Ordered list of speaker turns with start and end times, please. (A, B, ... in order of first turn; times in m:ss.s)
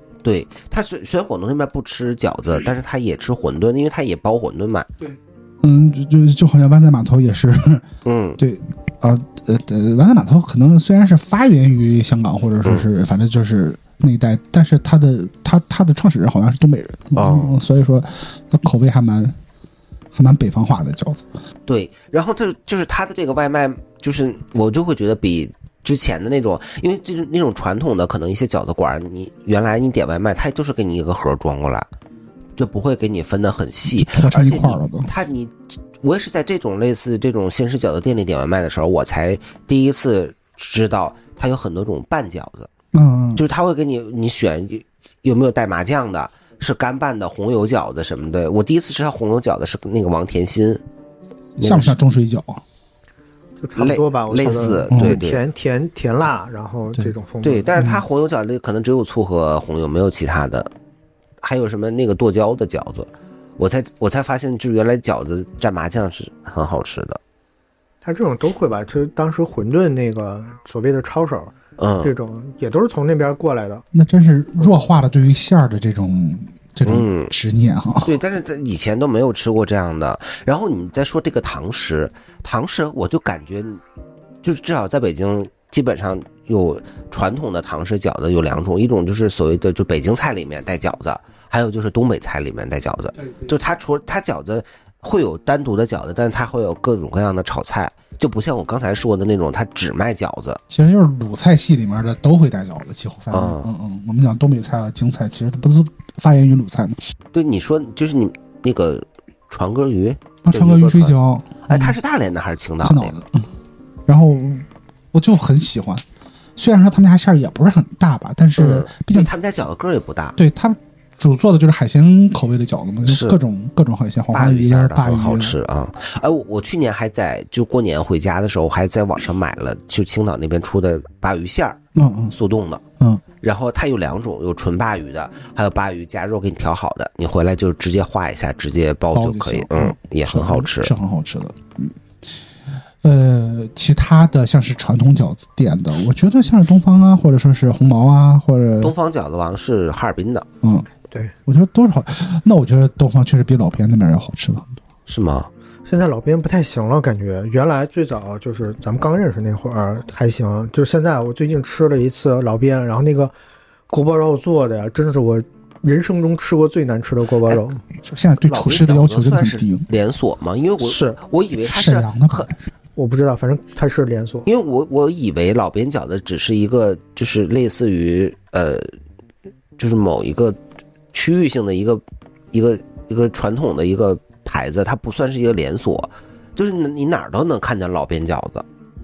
0:00.2-0:04.9 A
0:05.6-0:07.9 B
0:08.0-0:08.4 A
0:08.4-0:19.4 B
0:17.1-0:17.6 A
0:20.1-0:21.3 B
0:21.7-0:31.9 A
0:32.6-0:42.7 A
0:33.9-0:35.1 B
0:42.9-0:43.4 B
0:43.4-0:50.8 A
0:51.6-0:52.6 B
0:51.6-0:52.0 A
0:53.6-0:57.7 C
0:53.8-0:55.4 A
0:54.9-0:55.2 B
0:57.4-1:00.7 A
0:57.8-0:58.0 B
1:01.4-1:07.2 A
1:08.0-1:13.8 C
1:11.8-1:12.1 A
1:13.9-1:18.2 B
1:16.8-1:17.3 A
1:18.0-1:23.8 A
1:24.4-1:40.6 A
1:40.7-1:47.0 B
1:43.3-1:43.7 A
1:47.3-1:51.1 A
1:50.5-1:52.0 B
1:51.7-1:53.1 A
1:52.8-1:53.5 B
1:54.1-1:56.0 B
1:56.6-1:59.3 B
1:58.6-2:00.4 A
2:00.4-2:05.6 B
2:03.1-2:03.4 A
2:04.3-2:11.8 A
2:12.0-2:12.4 B
2:12.3-2:12.8 A
2:13.4-2:20.9 A
2:19.1-2:22.0 B
2:23.0-2:28.9 B
2:28.8-2:30.5 A
2:30.6-2:30.9 B
2:31.5-2:34.8 B
2:35.1-2:35.5 A
2:35.9-2:43.3 C
2:43.9-2:47.8 C
2:48.0-2:49.9 B
2:48.4-2:52.5 A
2:50.8-2:51.2 C
2:51.6-2:52.7 B
2:53.0-2:54.5 C
2:54.5-2:58.9 A
2:59.8-3:00.6 A
3:01.1-3:02.0 A
3:02.5-3:08.6 A